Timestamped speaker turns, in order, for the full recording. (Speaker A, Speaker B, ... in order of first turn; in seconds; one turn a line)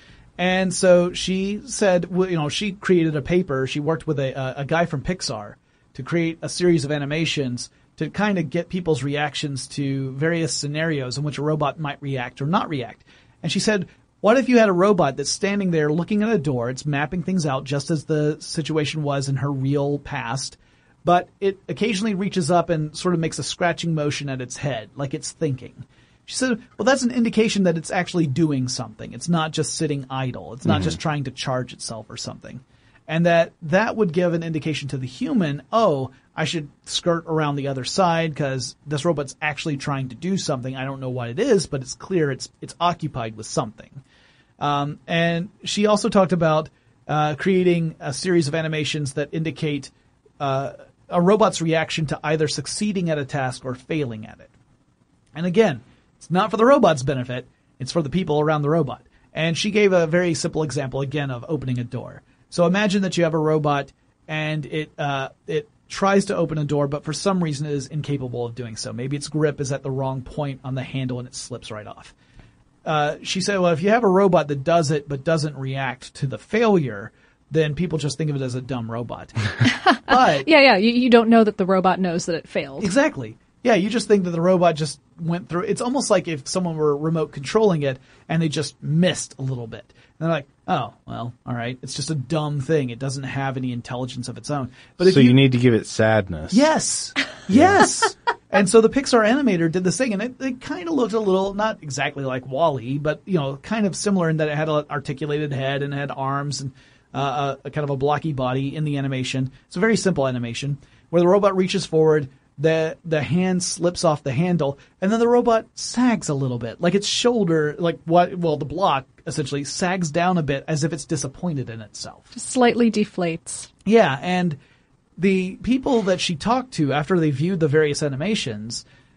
Speaker A: 0.4-44.0
Speaker B: 30.6-31.0
Speaker A: 44.6-54.5
Speaker A: 55.3-72.1
Speaker A: 72.8-80.5
Speaker C: 79.6-82.9
Speaker A: 82.8-95.4
Speaker B: 95.0-96.7
Speaker A: 96.5-122.3
Speaker B: 97.5-97.8
Speaker C: 122.3-123.7
Speaker A: 123.8-124.6
Speaker A: 125.2-128.8